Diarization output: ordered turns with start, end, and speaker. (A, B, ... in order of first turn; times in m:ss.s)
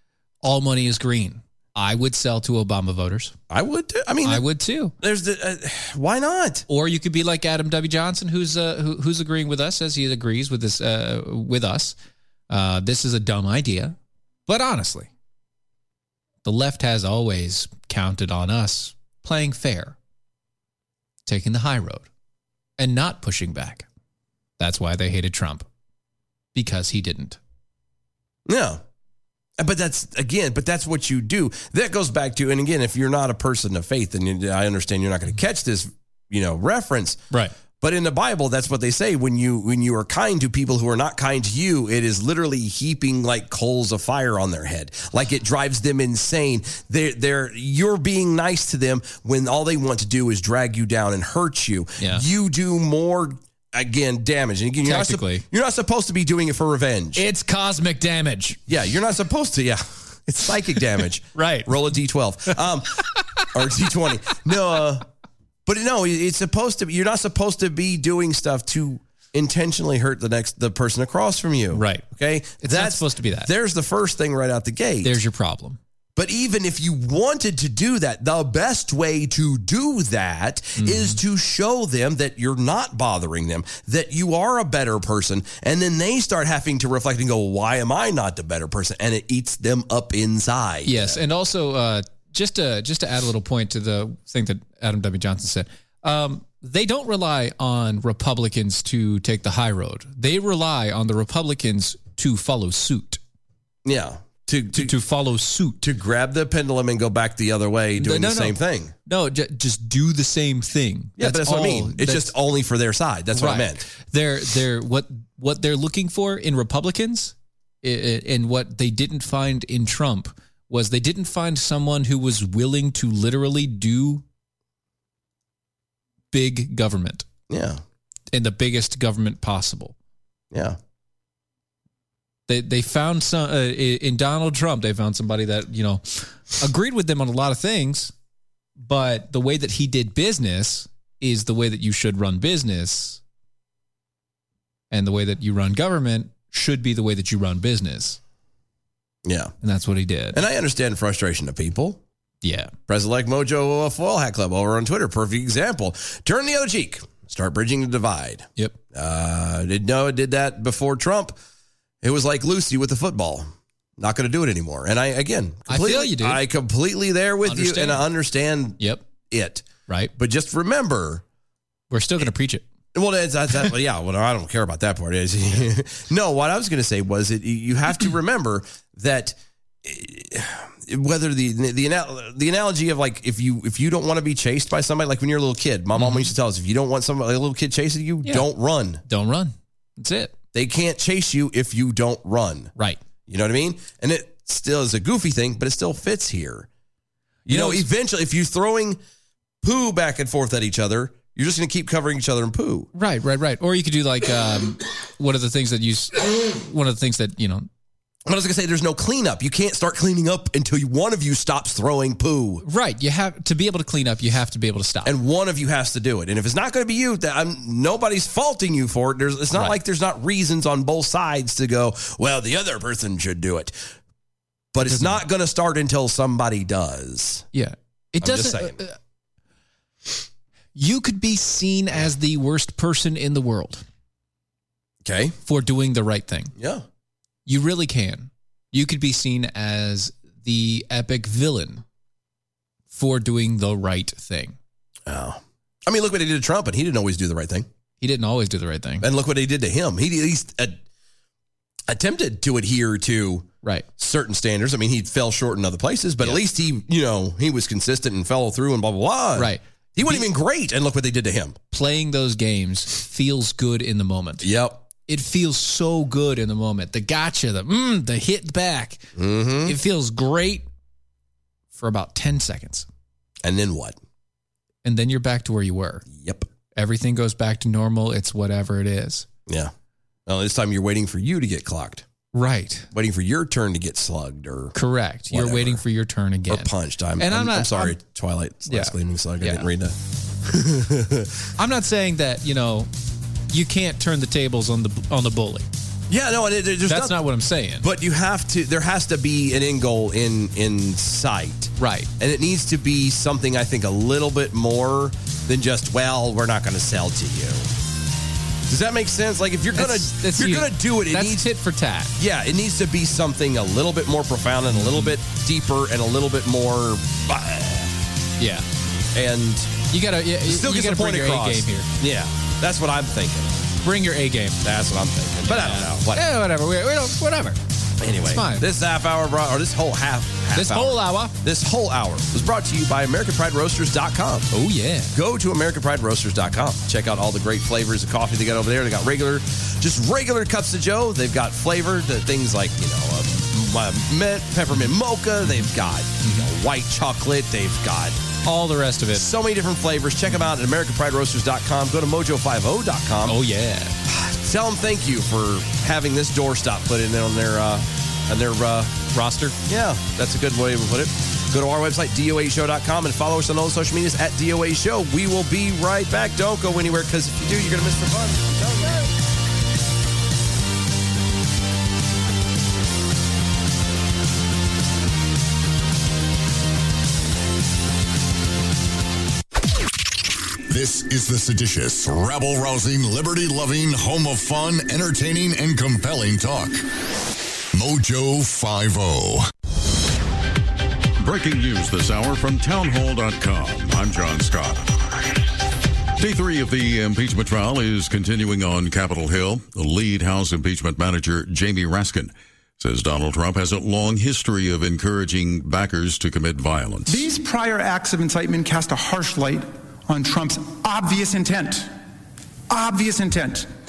0:00.4-0:03.3 A
0:03.5-0:04.4 B
0:04.2-0:04.9 A
0:05.0-0:06.7 B
0:06.7-0:12.0 A
0:12.5-0:14.0 A
0:14.5-0:15.1 A
0:16.4-0:20.0 A
0:21.3-0:22.1 A
0:22.8-0:23.9 A
0:24.6-0:25.7 A
0:26.6-0:27.4 A
0:28.4-0:28.8 B
0:29.6-0:37.2 B
0:37.8-0:57.2 B
0:52.0-0:52.2 A
0:54.8-0:55.4 A
0:57.1-0:58.6 A
0:58.7-1:05.0 B
1:01.3-1:01.7 A
1:03.2-1:03.4 A
1:05.7-1:15.2 B
1:11.7-1:12.0 A
1:12.6-1:13.5 A
1:15.0-1:15.8 A
1:16.2-1:31.2 B
1:20.8-1:21.2 A
1:30.9-1:43.2 A
1:43.8-1:45.0 B
1:44.7-1:45.8 A
1:45.8-1:48.9 B
1:48.0-1:52.3 A
1:51.2-1:53.8 B
1:53.3-2:04.2 A
2:06.3-2:07.3 A
2:07.5-2:07.8 B
2:08.3-2:10.0 A
2:10.5-2:10.8 B
2:12.5-2:18.1 A
2:18.8-2:23.2 A
2:24.9-2:28.2 A
2:29.2-2:29.5 B
2:29.6-2:30.4 A
2:30.3-2:32.0 B
2:32.4-2:32.7 A
2:32.9-2:41.4 B
2:42.0-2:49.7 B
2:45.7-2:46.4 A
2:47.4-2:48.0 A
2:48.8-2:49.0 A
2:49.9-2:50.1 A
2:50.2-2:51.2 B
2:51.9-2:52.6 A
2:52.9-3:09.0 B
3:06.0-3:06.3 A
3:09.0-3:10.3 A
3:10.5-3:12.7 B
3:13.3-3:16.7 B
3:17.4-3:17.9 A
3:17.5-3:19.0 B
3:19.6-3:22.9 B
3:23.0-3:27.7 A
3:28.3-3:32.6 B
3:32.6-3:35.1 A
3:35.0-3:43.7 B
3:39.5-3:39.8 A
3:44.7-3:47.4 B
3:44.8-3:45.2 A
3:47.5-3:49.0 A
3:48.2-3:48.8 B
3:50.7-3:53.8 A
3:55.0-3:55.4 B
3:55.4-3:56.5 A
3:56.6-3:56.8 B
3:57.4-4:01.8 A
4:02.9-4:04.6 A
4:05.1-4:07.7 B
4:08.0-4:09.0 A
4:09.0-4:10.8 B
4:11.9-4:21.6 B
4:19.4-4:20.3 A
4:21.7-4:24.5 A
4:24.4-4:24.8 B
4:25.1-4:29.0 A
4:29.1-4:29.8 B
4:29.6-4:30.6 A
4:31.7-4:32.9 A
4:33.4-4:34.0 B
4:34.8-4:36.0 A
4:36.1-4:36.4 B
4:36.8-4:39.3 A
4:39.5-4:39.7 B
4:40.3-4:42.0 B
4:42.3-4:42.9 A
4:42.9-4:44.8 B
4:44.7-4:48.0 A
4:45.3-4:45.8 B
4:46.5-4:51.5 B
4:48.7-4:49.7 A
4:51.6-4:52.9 A
4:53.5-4:55.7 A
4:56.1-4:57.2 B
4:56.9-4:57.9 A
4:57.8-5:07.7 B
5:01.8-5:02.1 A
5:08.7-5:11.5 B
5:09.7-5:12.1 A
5:12.2-5:17.9 B
5:14.7-5:15.1 A
5:18.4-5:18.7 A
5:19.1-5:19.8 B
5:19.9-5:21.9 A
5:20.4-5:23.6 B
5:23.8-5:24.6 A
5:24.6-5:26.3 B
5:25.4-5:27.6 A
5:28.0-5:34.5 B
5:28.2-5:28.7 A
5:30.5-5:31.4 A
5:34.5-5:35.1 A
5:35.1-5:48.2 B
5:46.2-5:46.5 A
5:48.4-5:49.3 A
5:49.1-5:53.4 B
5:53.3-5:54.0 A
5:54.1-6:09.1 B
5:59.1-5:59.6 A
6:20.7-6:26.8 C
6:27.7-6:29.5 C
6:31.2-6:34.9 D
6:36.2-6:47.2 D
6:47.0-6:51.9 E
6:52.7-6:53.7 E